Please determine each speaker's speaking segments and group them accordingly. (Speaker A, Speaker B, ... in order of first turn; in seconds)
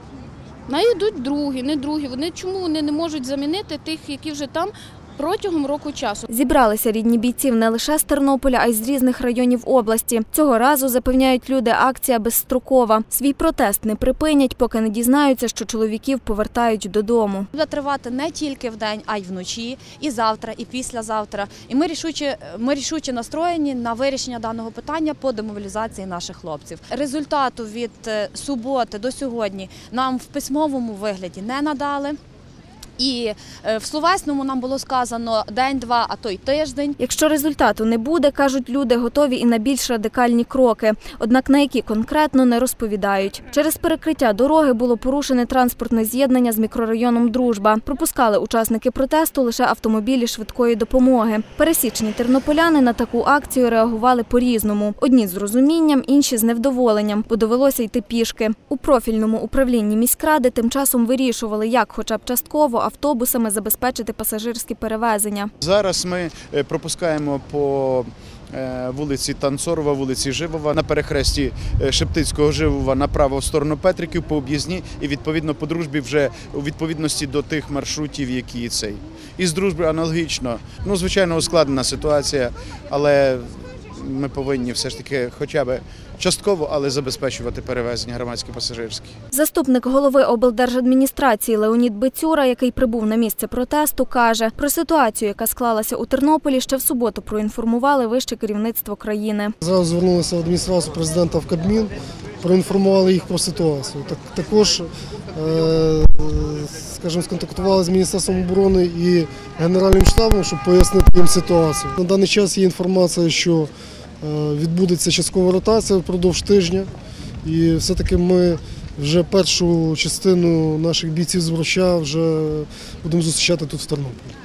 Speaker A: 0.7-6.3
Speaker B: 6.3-17.5, 37.0-65.5, 89.3-99.5
Speaker C: 17.5-32.2, 33.0-37.0
Speaker D: 65.6-89.2
Speaker E: 99.6-113.7, 114.2-116.9, 117.4-124.3